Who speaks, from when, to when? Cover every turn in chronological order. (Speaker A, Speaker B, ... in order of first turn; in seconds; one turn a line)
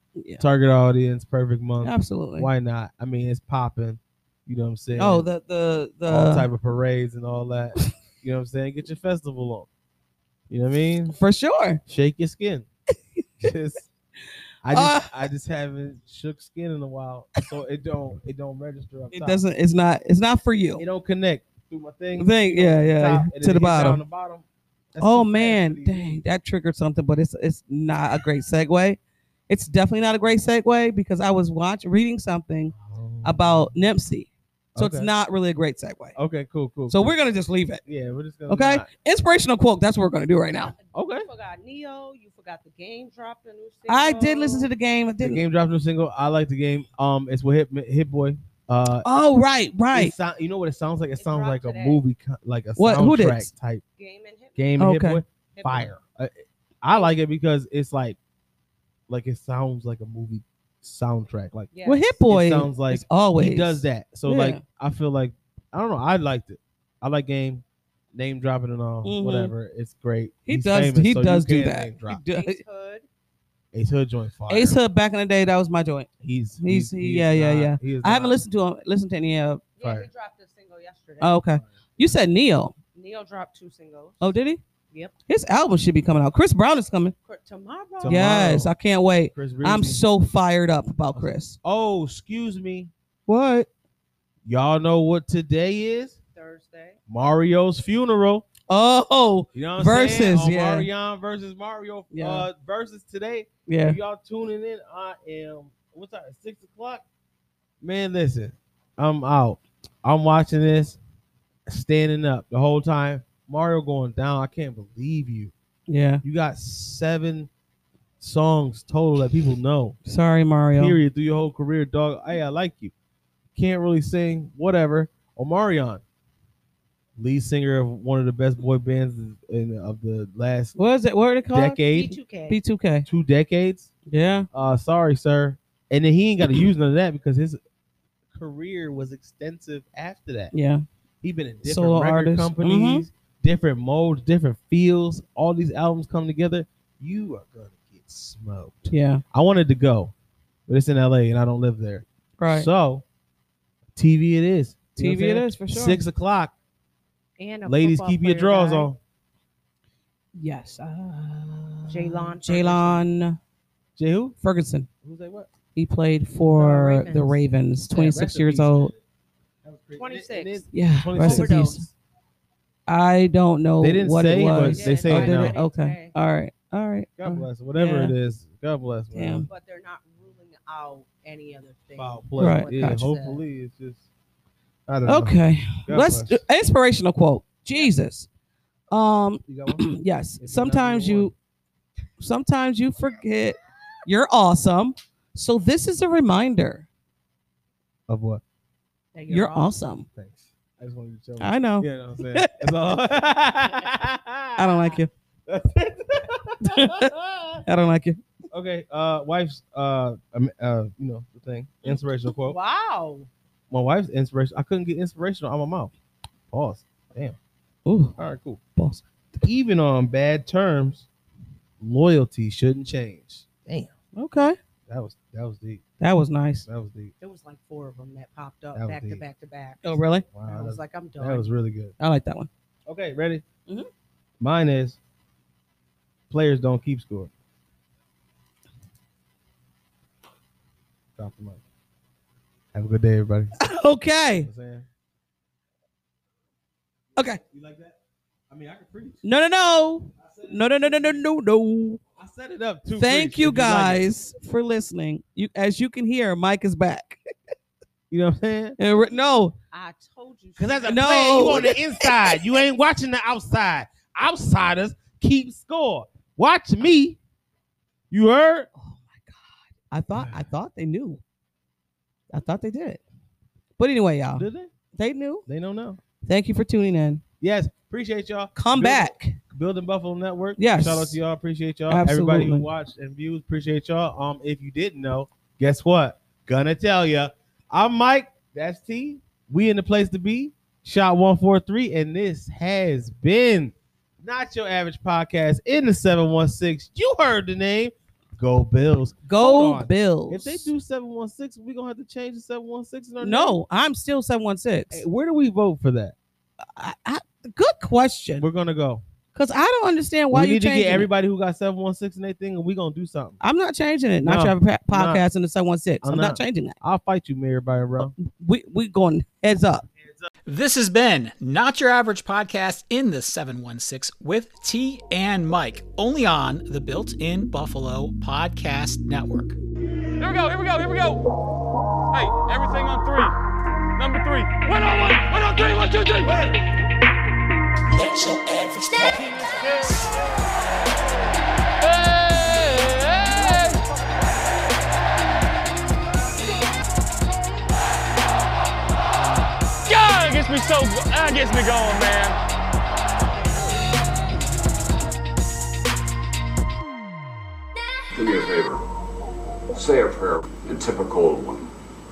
Speaker A: 0.2-0.4
Speaker B: 0.4-5.2
Speaker A: 1.8-2.5
Speaker A: 5.0-6.5
Speaker B: 6.1-9.7
Speaker B: 10.5-11.2
Speaker A: 11.1-11.8
Speaker B: 11.9-12.7
Speaker B: 13.4-13.9
Speaker B: 14.6-19.4
Speaker A: 14.7-15.1
Speaker A: 19.1-20.8
Speaker B: 20.8-26.2
Speaker A: 22.2-24.0
Speaker A: 25.0-36.1
Speaker B: 32.7-33.7
Speaker B: 34.7-35.1
Speaker B: 36.1-37.1
Speaker A: 36.9-37.8
Speaker B: 37.9-38.9
Speaker A: 38.5-40.7
Speaker C: 40.5-44.7
Speaker B: 40.9-41.3
Speaker A: 43.9-45.4
Speaker B: 45.2-49.1
Speaker A: 49.0-50.1
Speaker B: 49.9-53.8
Speaker C: 51.1-52.0
Speaker A: 52.8-53.5
Speaker C: 54.0-54.6
Speaker B: 54.6-58.2
Speaker A: 54.8-55.2
Speaker C: 55.5-55.9
Speaker B: 59.1-61.7
Speaker C: 61.7-62.2
Speaker A: 61.8-64.6
Speaker B: 62.3-72.2
Speaker A: 69.0-69.5
Speaker A: 70.5-72.6
Speaker C: 72.3-73.0
Speaker B: 73.7-74.8
Speaker A: 74.5-76.1
Speaker B: 76.2-78.4
Speaker A: 76.6-79.6
Speaker C: 79.8-81.4
Speaker B: 79.8-80.1
Speaker A: 81.2-82.7
Speaker B: 81.5-82.1
Speaker C: 82.9-84.4
Speaker A: 84.2-84.6
Speaker A: 85.3-87.1
Speaker C: 87.2-88.6
Speaker B: 88.0-88.7
Speaker A: 88.0-91.5
Speaker B: 89.3-90.0
Speaker B: 91.1-92.9
Speaker A: 93.3-93.7
Speaker B: 94.4-96.2
Speaker C: 96.3-97.0
Speaker B: 97.1-98.4
Speaker A: 98.7-100.9
Speaker B: 99.5-107.0
Speaker A: 102.1-102.5
Speaker A: 103.7-104.0
Speaker B: 107.8-111.0
Speaker B: 111.7-115.5
Speaker A: 115.9-116.2
Speaker B: 116.2-117.5
Speaker B: 118.2-120.0
Speaker A: 120.0-121.0
Speaker B: 120.7-122.9
Speaker B: 123.5-126.0
Speaker B: 127.2-130.8
Speaker A: 130.8-131.8
Speaker B: 131.5-132.2
Speaker C: 131.9-132.6
Speaker A: 132.5-133.1
Speaker B: 133.1-133.9
Speaker A: 134.1-134.5
Speaker B: 134.5-137.6
Speaker B: 138.3-140.5
Speaker A: 140.5-140.8
Speaker B: 141.2-150.1
Speaker A: 141.6-143.1
Speaker A: 148.9-149.2
Speaker B: 150.7-153.0
Speaker A: 152.4-152.7
Speaker B: 153.9-156.5
Speaker A: 155.0-156.1
Speaker C: 157.4-158.9
Speaker B: 157.7-159.0
Speaker A: 160.3-163.4
Speaker C: 161.9-163.1
Speaker B: 164.0-164.4
Speaker A: 164.4-164.9
Speaker B: 165.0-165.5
Speaker A: 165.7-168.9
Speaker C: 166.4-168.2
Speaker B: 168.0-169.0
Speaker B: 169.6-171.9
Speaker C: 169.9-171.8
Speaker A: 170.7-171.8
Speaker A: 172.9-178.1
Speaker B: 173.8-175.6
Speaker C: 174.5-176.1
Speaker B: 177.2-179.5
Speaker A: 179.1-179.5
Speaker C: 179.5-183.4
Speaker B: 181.9-184.1
Speaker A: 182.4-183.1
Speaker B: 184.9-186.4
Speaker A: 185.1-188.3
Speaker A: 188.9-191.3
Speaker B: 189.4-189.9
Speaker B: 190.4-191.3
Speaker A: 192.2-196.8
Speaker B: 198.1-198.4
Speaker C: 199.1-199.7
Speaker A: 199.3-200.1
Speaker B: 200.1-204.7
Speaker A: 201.4-202.6
Speaker A: 204.6-205.1
Speaker B: 205.5-207.6
Speaker A: 206.6-207.1
Speaker A: 207.7-208.2
Speaker B: 208.5-212.6
Speaker C: 212.4-213.3
Speaker B: 213.7-215.9
Speaker B: 216.5-217.4
Speaker A: 217.9-218.2
Speaker B: 218.2-218.6
Speaker A: 218.8-219.1
Speaker B: 219.4-221.1
Speaker B: 221.8-223.9
Speaker A: 224.1-224.6
Speaker B: 224.9-225.8
Speaker A: 226.0-226.7
Speaker B: 226.7-227.1
Speaker C: 227.2-231.5
Speaker B: 228.7-229.2
Speaker A: 229.8-230.2
Speaker B: 230.3-231.9
Speaker A: 232.0-232.5
Speaker B: 232.9-233.4
Speaker B: 234.4-235.0
Speaker B: 236.3-237.3
Speaker B: 241.2-241.6
Speaker B: 242.7-243.6
Speaker A: 243.6-244.5
Speaker B: 244.3-244.9
Speaker B: 247.2-248.0
Speaker B: 248.5-249.2
Speaker A: 249.2-252.0
Speaker B: 250.2-251.2
Speaker B: 252.2-254.1
Speaker A: 252.9-257.2
Speaker B: 258.1-258.8
Speaker A: 258.8-259.6
Speaker C: 259.7-261.4
Speaker B: 260.6-267.2
Speaker A: 260.9-262.3
Speaker B: 268.1-268.7
Speaker A: 268.8-271.2
Speaker B: 270.1-270.4
Speaker A: 272.3-273.0
Speaker A: 273.8-275.5
Speaker B: 274.3-274.7
Speaker B: 275.5-276.0
Speaker A: 276.2-277.2
Speaker B: 277.4-303.6
Speaker A: 278.6-279.4
Speaker A: 280.6-281.2
Speaker A: 281.9-282.7
Speaker A: 299.2-300.7
Speaker A: 303.2-305.1
Speaker B: 304.9-306.1
Speaker A: 306.8-308.4
Speaker B: 308.4-309.0
Speaker A: 309.3-311.1
Speaker B: 310.3-313.4
Speaker A: 313.4-316.7
Speaker B: 314.2-315.2
Speaker B: 316.0-318.1
Speaker A: 318.2-319.9
Speaker B: 320.0-320.3
Speaker D: 320.5-329.6
Speaker E: 330.2-331.3
Speaker E: 332.1-333.3
Speaker E: 333.9-336.6
Speaker B: 336.3-336.6
Speaker E: 337.9-340.1
Speaker D: 338.1-339.1
Speaker E: 341.8-343.8
Speaker E: 349.9-352.4
Speaker F: 358.1-358.8
Speaker F: 359.7-361.7